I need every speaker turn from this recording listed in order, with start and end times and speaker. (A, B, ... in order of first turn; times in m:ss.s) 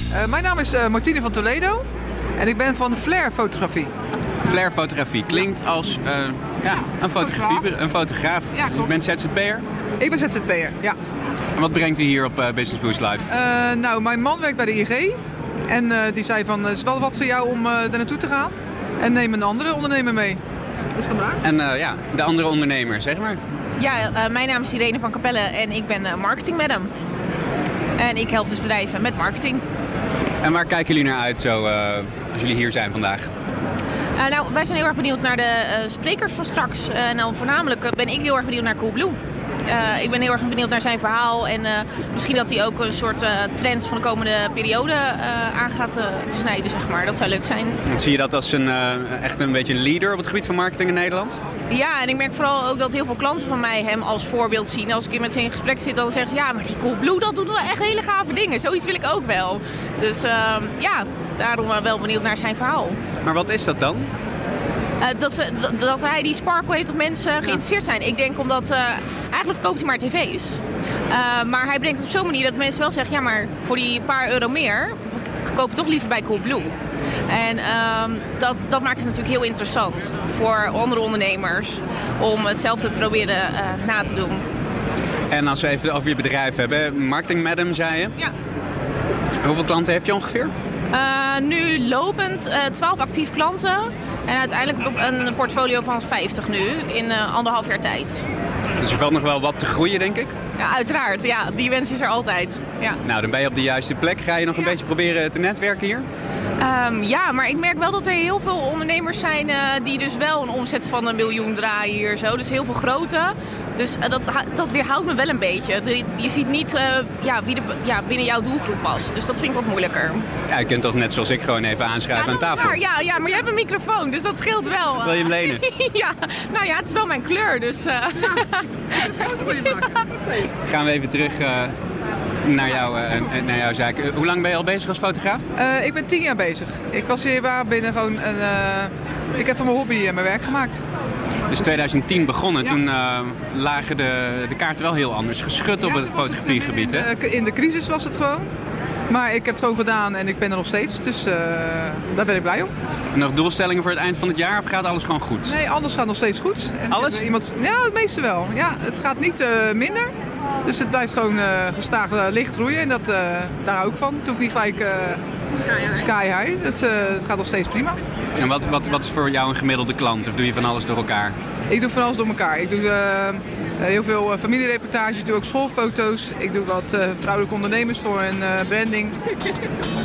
0:00.1-0:01.8 A
0:02.4-0:03.9 A
0:04.4-0:09.6 B
0:07.2-0:07.6 A
0:10.0-0:11.0 A
0:11.6-0:13.3 B
0:13.3-0:20.4 A
0:21.0-0:21.4 A
0:21.4-0:23.4 B
0:23.8-0:26.9 C
0:28.0-0:29.6 C
0:30.4-0:33.3 B
0:34.2-0:47.8 C
0:47.8-0:51.4 B
0:51.7-1:03.0 C
1:03.2-1:04.1 B
1:05.0-1:16.7 C
1:17.3-1:24.4 C
1:25.3-1:28.1 B
1:29.4-1:30.5 B
1:30.9-1:38.3 C
1:38.8-1:40.3 B
1:40.6-1:43.0 C
1:43.0-1:46.1 B
1:46.6-2:00.3 C
2:00.5-2:02.8 B
2:02.1-2:09.8 C
2:05.0-2:05.6 B
2:09.1-2:10.0 A
2:10.6-2:11.7 B
2:12.4-2:15.4 B
2:15.6-2:20.8 A
2:21.5-2:27.1 B
2:25.8-2:28.5 A
2:29.1-2:32.7 A
2:33.1-2:35.6 B
2:35.4-2:45.2 A
2:36.9-2:37.3 B
2:45.9-2:48.0 A
2:48.4-2:51.4 B
2:51.7-2:59.2 A